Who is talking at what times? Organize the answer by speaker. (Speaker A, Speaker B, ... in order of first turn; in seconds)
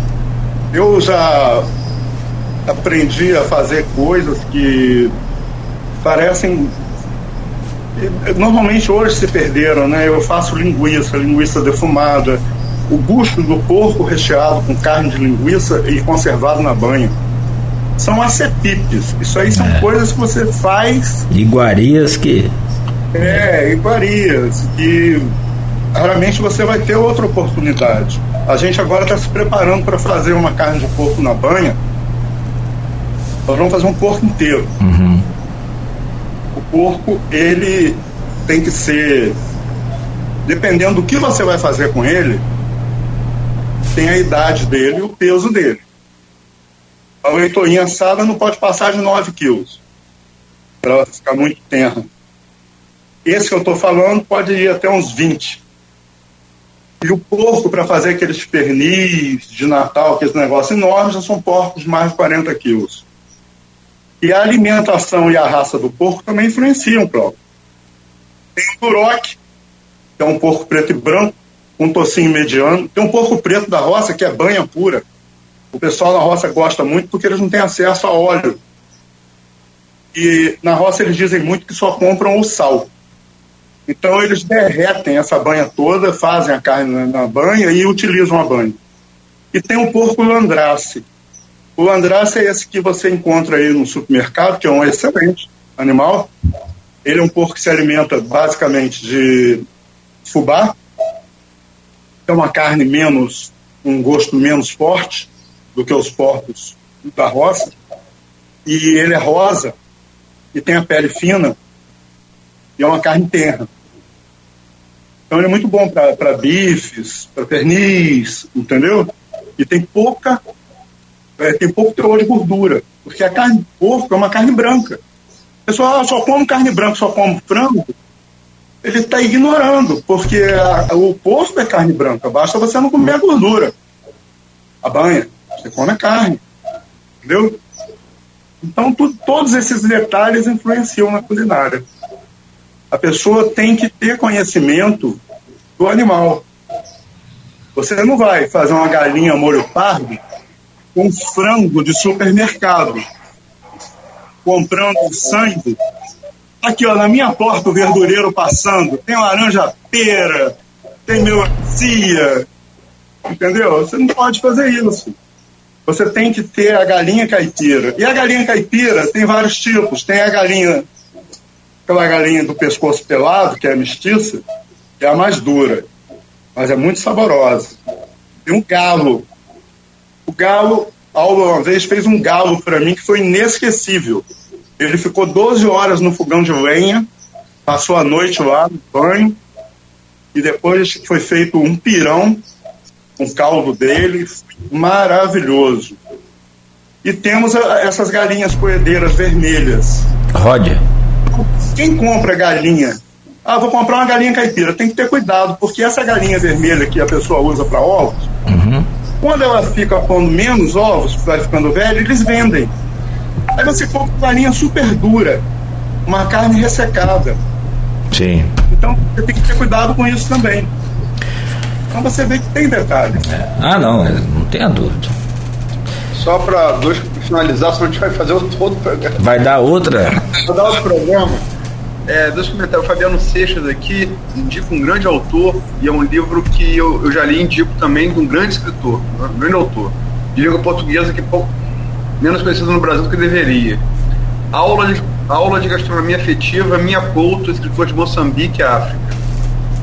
Speaker A: 0.7-1.7, 2.6-5.1, 6.0-6.7, 8.0-17.1, 18.0-21.3, 23.1-25.3, 25.9-31.8, 33.5-34.7, 36.5-39.4, 40.5-42.4, 43.9-45.8, 47.2-49.8, 50.8-52.0, 53.2-55.6, 57.0-63.0, 64.2-67.4, 68.6-69.4, 70.2-75.0, 75.7-78.6, 80.1-82.9, 83.9-88.8, 89.5-91.0, 91.8-96.3, 97.0-99.6, 100.2-100.8, 102.3-107.7, 108.7-109.7, 110.5-111.5, 112.8-113.7, 115.3-120.4, 121.4-125.0, 125.7-127.9, 128.8-133.7, 134.8-136.4, 137.2-137.6, 138.6-141.8, 142.9-145.2, 145.8-146.4, 147.7-150.2, 150.9-153.0, 154.4-155.8, 156.6-160.5, 161.1-162.4, 163.3-165.1, 165.9-170.8, 171.9-174.4, 175.0-175.9, 176.6-177.8, 178.4-179.3, 180.3-184.2, 184.8-187.1, 187.7-189.4, 190.3-192.4, 193.2-196.0, 197.0-200.1, 201.3-208.3, 209.2-212.7, 213.6-215.4, 216.1-217.4, 218.7-220.7, 221.9-223.2
Speaker B: 19.5-19.9, 21.3-22.5, 23.2-23.4, 34.8-35.3, 200.3-200.8, 208.5-208.9, 218.1-218.5, 223.2-225.2, 229.2-230.2
Speaker C: 226.1-229.2, 230.4-231.4, 232.1-241.5, 242.2-243.8, 244.5-249.2